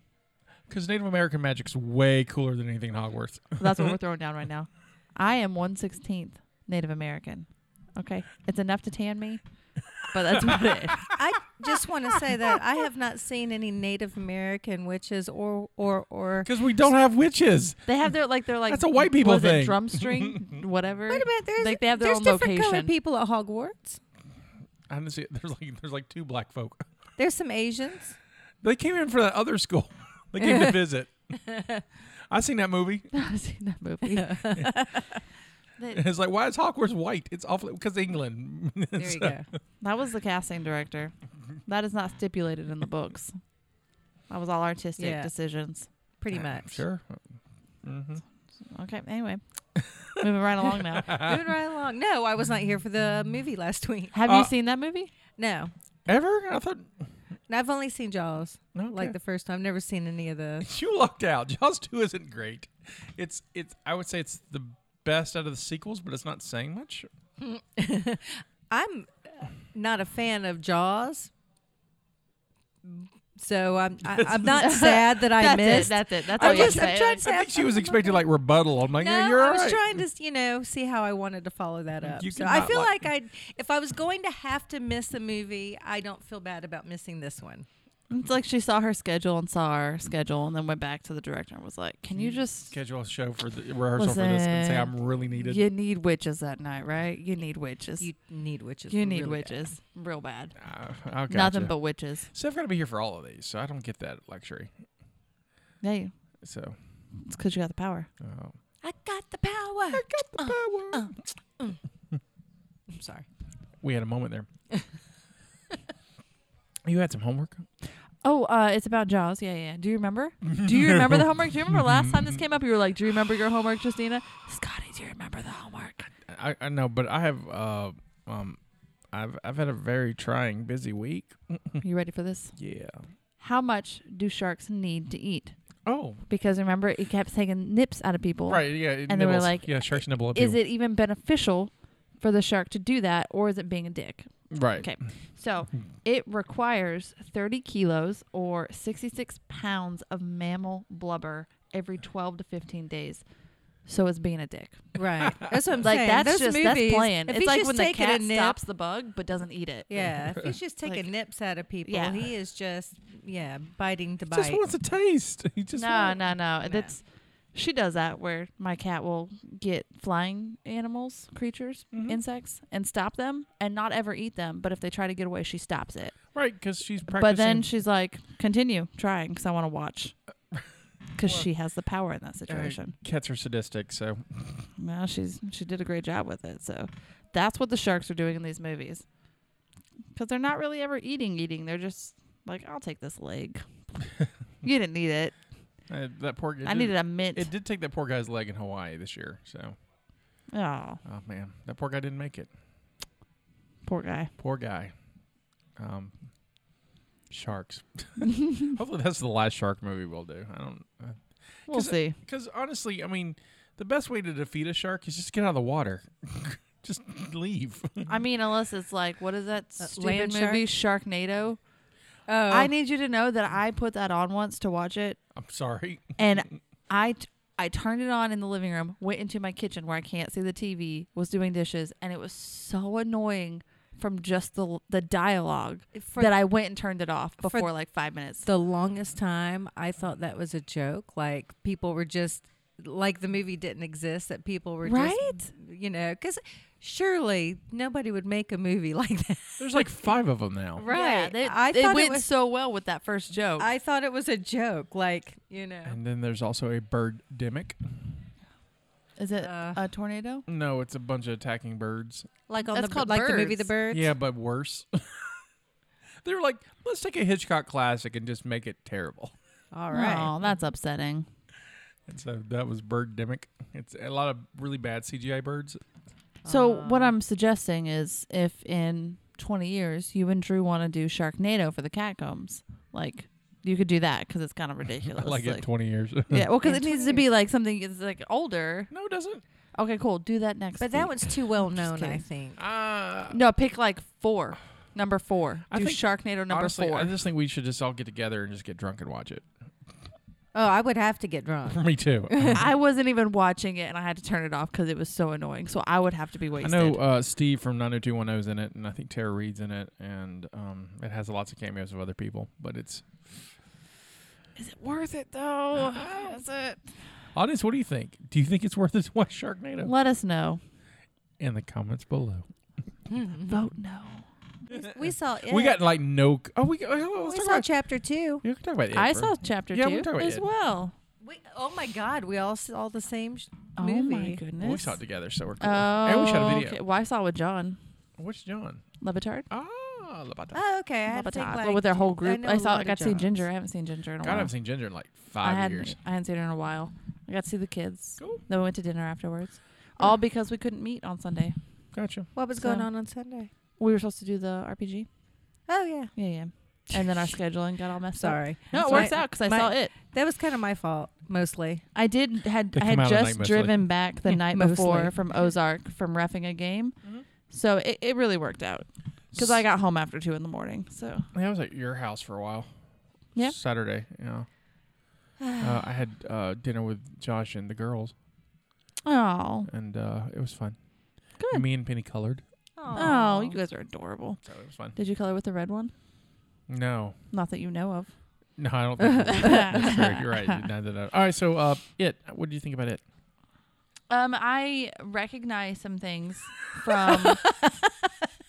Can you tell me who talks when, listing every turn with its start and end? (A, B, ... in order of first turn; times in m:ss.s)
0:00.7-0:04.0 A
0:03.6-0:09.4 B
0:10.0-0:11.0 B
0:11.1-0:16.5 C
0:16.4-0:17.9 A
0:17.8-0:22.9 B
0:18.7-0:20.6 A
0:21.1-0:24.0 C
0:24.9-0:26.8 A
0:27.2-0:28.2 C
0:28.6-0:31.1 A
0:30.4-0:30.8 C
0:31.5-0:31.8 C
0:32.3-0:33.1 A
0:33.1-0:34.4 B
0:34.1-0:35.0 C
0:35.8-0:36.0 B
0:35.9-0:39.4 A
0:39.0-0:39.4 C
0:39.8-0:41.1 B
0:41.6-0:43.4 B
0:44.3-0:45.9 B
0:45.0-0:45.3 C
0:46.2-0:46.8 C
0:46.3-0:48.2 A
0:48.7-0:49.4 B
0:50.2-0:51.1 B
0:50.7-0:51.4 A
0:51.2-0:54.1 C
0:54.1-0:55.1 B
0:54.2-0:54.5 A
0:55.4-0:55.7 C
0:56.1-0:56.9 A
0:57.5-1:00.7 C
0:58.7-0:59.2 A
1:00.6-1:07.1 A
1:07.4-1:09.1 C
1:09.7-1:11.3 C
1:12.8-1:18.2 C
1:14.1-1:14.6 A
1:14.6-1:17.2 B
1:16.4-1:20.0 A
1:19.0-1:27.7 C
1:22.0-1:23.0 A
1:28.1-1:32.7 B
1:32.1-1:35.6 A
1:34.0-1:38.1 B
1:38.0-1:39.7 C
1:38.9-1:40.5 B
1:40.6-1:41.7 A
1:41.3-1:42.3 B
1:42.3-1:44.7 A
1:45.8-1:46.1 B
1:46.4-1:46.8 A
1:47.2-1:48.1 B
1:48.2-1:48.6 A
1:48.8-1:51.8 C
1:49.9-1:51.1 A
1:52.9-1:53.2 C
1:53.8-1:54.5 A
1:56.8-1:57.7 A
1:58.2-2:06.1 B
2:00.4-2:02.4 A
2:06.2-2:08.6 A
2:09.1-2:11.8 A
2:11.8-2:12.5 B
2:12.6-2:13.0 A
2:13.4-2:15.5 B
2:15.8-2:16.2 A
2:16.3-2:33.2 B
2:18.5-2:20.6 A
2:24.5-2:24.9 A
2:33.8-2:34.8 B
2:35.0-2:38.6 C
2:35.8-2:40.0 B
2:39.9-2:44.6 C
2:40.0-2:40.5 A
2:41.8-2:42.2 B
2:44.3-2:46.2 A
2:45.7-2:47.0 B
2:46.7-2:46.9 C
2:47.5-2:56.2 B
2:51.9-2:52.2 A
2:56.3-2:57.7 A
2:57.1-3:00.1 B
3:01.2-3:02.9 B
3:02.5-3:04.2 A
3:04.8-3:09.0 B
3:10.2-3:13.6 B
3:14.6-3:15.3 B
3:15.9-3:19.8 A
3:16.6-3:17.5 B
3:20.5-3:21.0 B
3:21.0-3:22.5 A
3:23.8-3:24.3 B
3:24.4-3:24.9 A
3:25.8-3:26.2 A
3:27.3-3:38.1 A
3:31.7-3:32.2 B
3:38.1-3:41.6 B
3:39.8-3:40.7 C
3:42.3-3:42.7 C
3:42.5-3:45.2 B
3:45.3-3:46.4 A
3:46.2-3:58.4 B
3:55.9-3:56.4 C
3:57.4-3:57.7 C
3:58.4-4:09.8 C
4:04.8-4:05.5 B
4:09.6-4:10.9 A
4:10.8-4:12.3 C
4:10.8-4:13.7 B
4:13.6-4:16.0 C
4:15.8-4:17.8 A
4:19.2-4:20.4 B
4:19.4-4:19.8 C
4:20.5-4:22.3 A
4:22.5-4:24.1 C
4:22.5-4:23.7 B
4:23.9-4:25.4 A
4:26.2-4:29.3 A
4:29.7-4:30.3 C
4:29.9-4:31.3 B
4:32.1-4:35.8 A
4:36.4-4:37.2 C
4:36.4-4:45.6 B
4:45.0-4:46.4 A
4:46.3-4:48.9 B
4:46.6-4:47.2 C
4:48.9-4:49.4 A
4:49.8-4:51.1 B
4:50.8-4:52.6 C
4:51.6-4:52.2 B
4:52.6-4:53.4 A
4:53.3-4:57.1 B
4:55.7-4:59.5 A
5:00.5-5:02.6 C
5:01.7-5:02.6 A
5:02.5-5:07.0 B
5:06.6-5:13.4 A
5:14.6-5:16.8 B
5:15.7-5:16.4 A
5:17.3-5:19.9 A
5:19.8-5:20.6 B
5:21.4-5:22.5 A
5:23.1-5:23.6 C
5:23.5-5:24.2 B
5:24.7-5:25.8 C
5:25.4-5:27.7 A
5:27.3-5:28.4 C
5:28.4-5:30.4 A
5:28.9-5:30.9 B
5:31.2-5:34.4 C
5:33.8-5:35.0 B
5:34.6-5:36.8 A
5:35.6-5:37.8 B
5:38.2-5:38.8 A
5:39.0-5:39.5 B
5:39.5-5:40.6 A
5:40.5-5:43.4 C
5:41.1-5:44.5 B
5:44.2-5:46.0 A
5:45.4-5:51.5 B
5:51.9-5:52.3 A
5:52.3-5:53.5 C
5:52.6-5:52.9 B
5:53.8-5:55.1 B
5:55.7-5:56.1 C
5:56.2-5:59.9 B
5:58.2-6:01.8 C
5:58.8-5:59.1 A
6:01.9-6:07.0 B
6:02.7-6:03.8 A
6:04.3-6:05.2 C
6:07.5-6:11.3 B
6:09.3-6:09.6 A
6:11.3-6:12.7 A
6:13.4-6:14.5 A
6:15.4-6:15.8 C
6:15.6-6:18.1 A
6:19.0-6:19.7 B
6:19.7-6:20.8 A
6:21.4-6:21.6 B
6:21.5-6:22.4 A
6:22.8-6:23.6 C
6:22.9-6:24.4 B
6:24.4-6:25.0 A
6:25.0-6:25.9 B
6:26.7-6:27.2 A
6:27.3-6:28.1 B
6:28.6-6:33.0 A
6:29.2-6:29.6 C
6:29.4-6:30.6 B
6:34.1-6:37.5 B